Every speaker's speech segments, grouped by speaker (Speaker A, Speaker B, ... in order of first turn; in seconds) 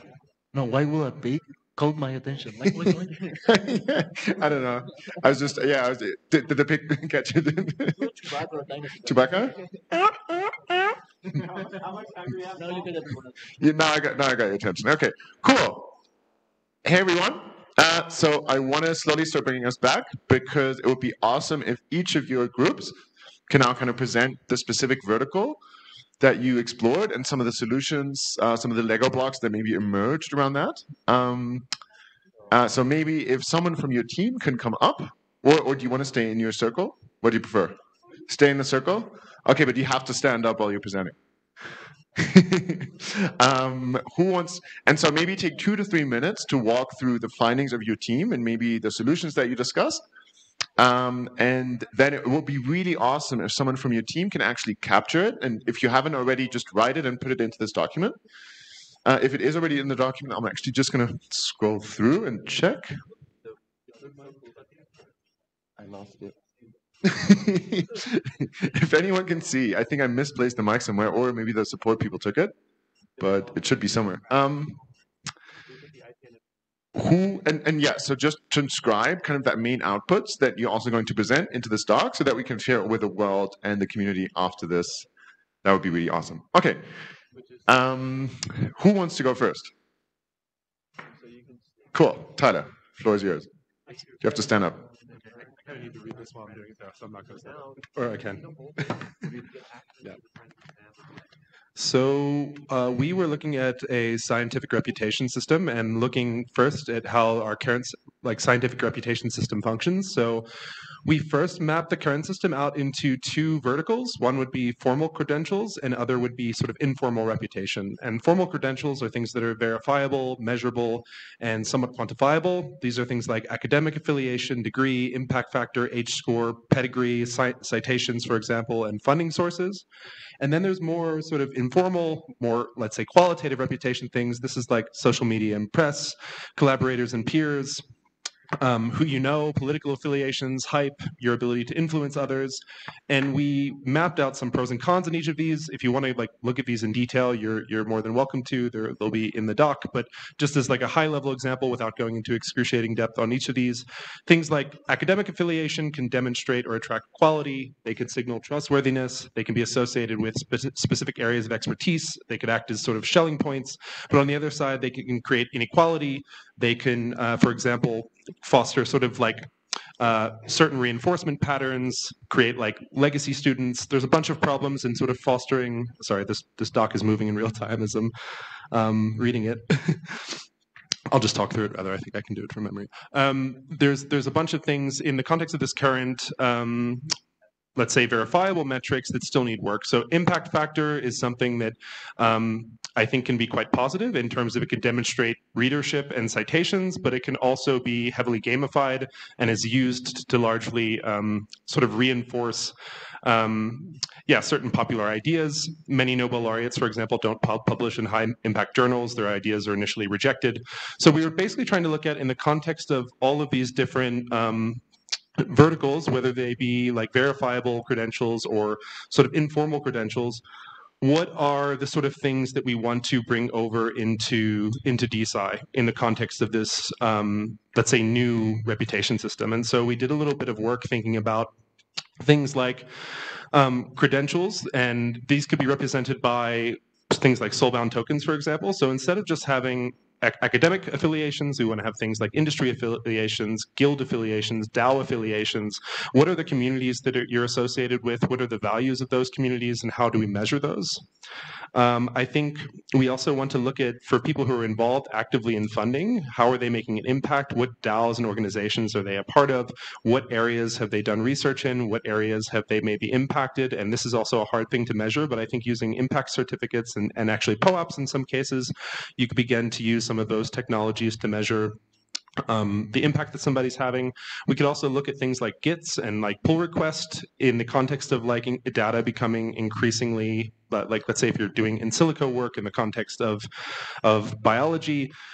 Speaker A: 0.5-3.4, 7.9-9.7, 11.3-13.5, 63.9-64.8, 73.2-73.6, 75.7-76.4, 87.3-87.8, 91.0-92.0, 93.9-101.2
Speaker B: 3.4-8.1, 9.0-10.0, 13.6-15.9, 16.8-22.9, 23.5-25.6, 26.2-31.7, 32.5-37.8, 38.3-41.1, 42.2-50.0, 50.8-58.2, 59.0-62.9, 65.8-66.3, 67.0-72.5, 73.2-74.8, 76.9-85.1, 85.6-86.9, 87.7-89.7, 91.9-93.5, 94.2-94.8
Speaker C: 64.0-64.4, 95.6-98.4, 101.8-110.5, 111.0-129.8, 130.4-137.8, 138.6-178.1, 178.7-180.4, 181.1-187.1, 187.8-214.8, 215.4-220.4, 221.0-231.5, 232.2-251.1, 251.7-271.8, 272.4-285.1